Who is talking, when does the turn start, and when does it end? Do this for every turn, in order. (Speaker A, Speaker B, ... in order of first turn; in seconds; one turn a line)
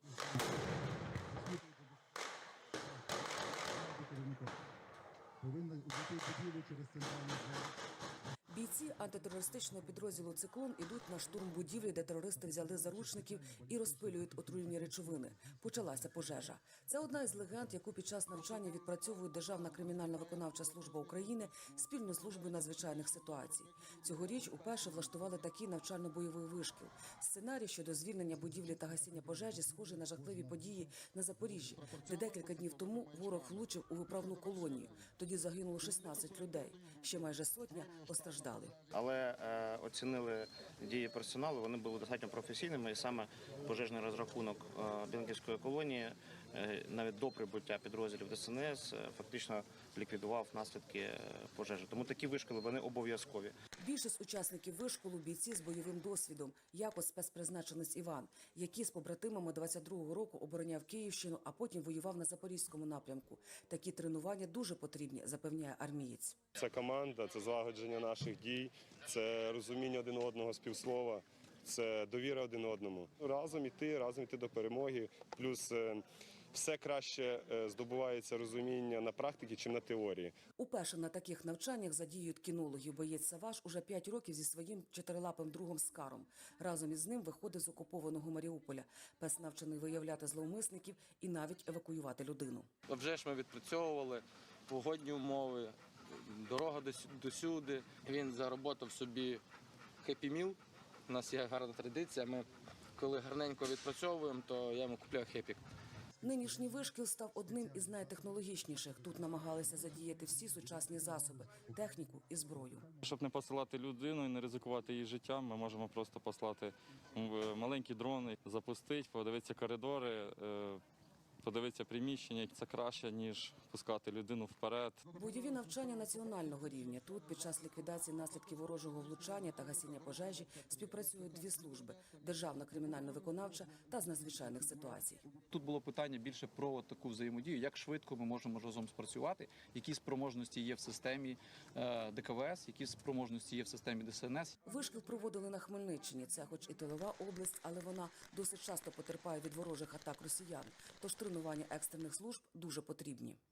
Speaker A: 4.0-4.5
Speaker A: 5.5-7.6
Speaker B: 8.5-38.8
Speaker C: 38.9-53.5
Speaker B: 53.8-66.4
Speaker D: 66.6-80.3
Speaker B: 80.6-92.7
Speaker E: 92.9-99.4
Speaker E: 100.0-105.6
Speaker B: 106.2-112.9
Speaker F: 113.0-120.8
Speaker F: 121.4-125.0
Speaker B: 125.1-135.2
Speaker G: 135.5-144.6
Speaker B: 144.6-153.4